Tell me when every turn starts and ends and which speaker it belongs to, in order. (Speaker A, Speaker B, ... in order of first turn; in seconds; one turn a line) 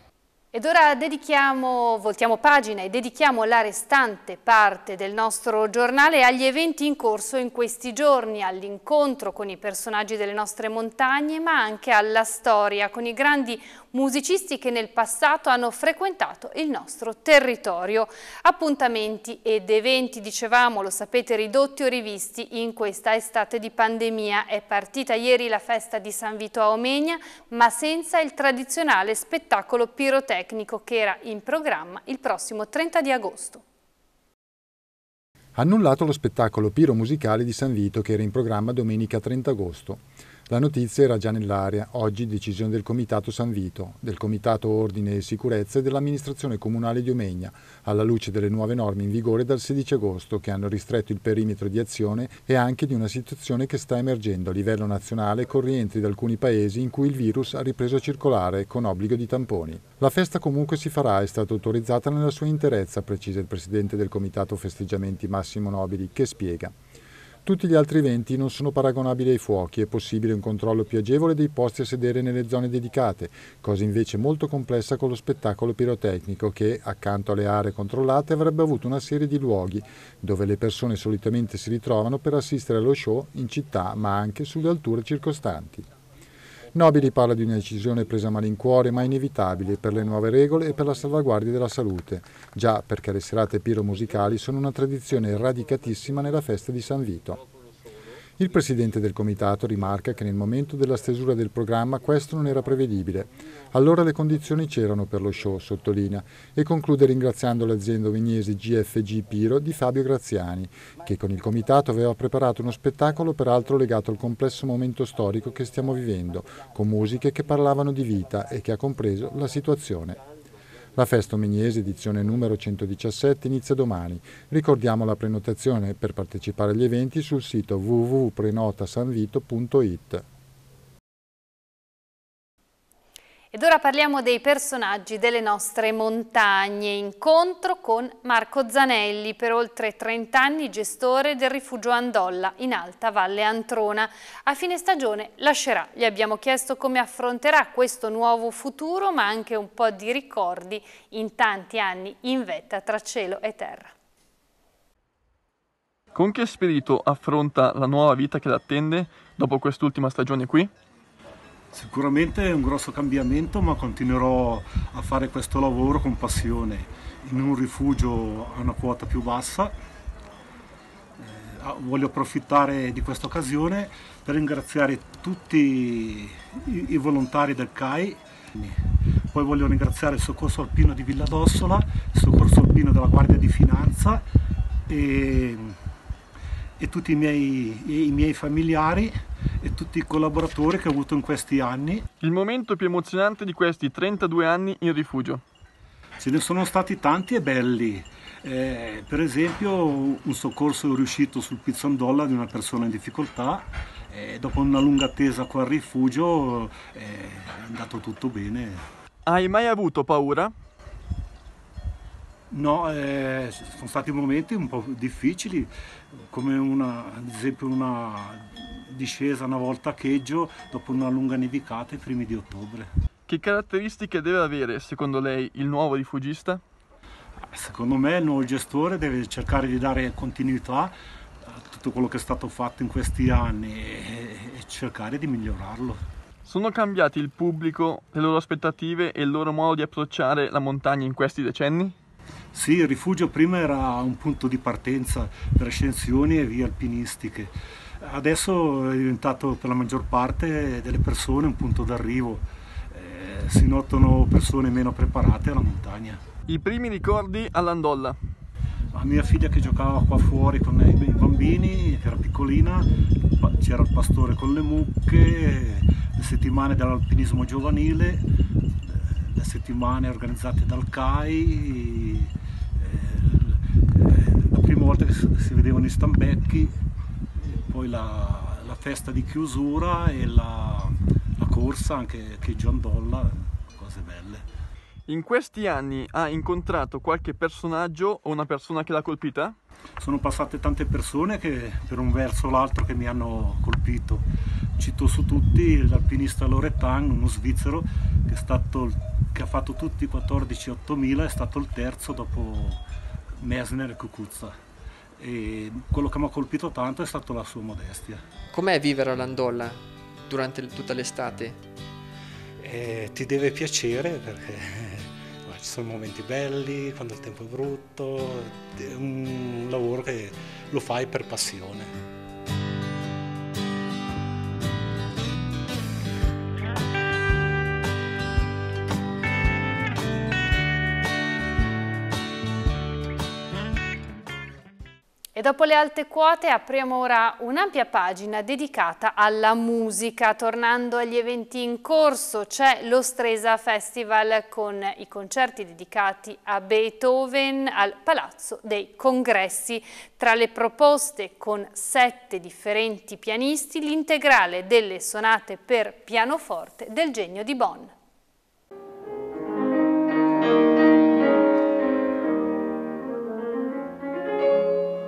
Speaker A: 0.5-33.6
Speaker B: 35.6-66.8
Speaker B: 67.5-85.9
Speaker B: 86.7-97.4
Speaker B: 98.4-120.2
Speaker B: 121.0-130.2
Speaker A: 133.5-153.9
Speaker C: 156.2-160.7
Speaker D: 161.7-169.7
Speaker D: 171.2-184.2
Speaker D: 184.9-185.8
Speaker D: 186.8-192.0
Speaker C: 192.2-195.4
Speaker D: 196.2-208.8
Speaker C: 209.3-210.5
Speaker D: 212.5-215.7
Speaker D: 216.3-222.9
Speaker C: 223.3-226.6
Speaker D: 227.5-230.9
Speaker D: 231.5-236.0
Speaker C: 236.5-242.0
Speaker D: 242.5-256.2
Speaker C: 256.5-258.2
Speaker D: 258.9-268.2
Speaker D: 268.8-276.8
Speaker D: 277.4-284.4
Speaker C: 285.1-289.6
Speaker D: 290.0-294.3
Speaker D: 294.8-302.8
Speaker D: 303.4-304.6
Speaker D: 305.2-308.2
Speaker E: 308.5-311.6
Speaker D: 312.6-322.0
Speaker A: 335.4-357.9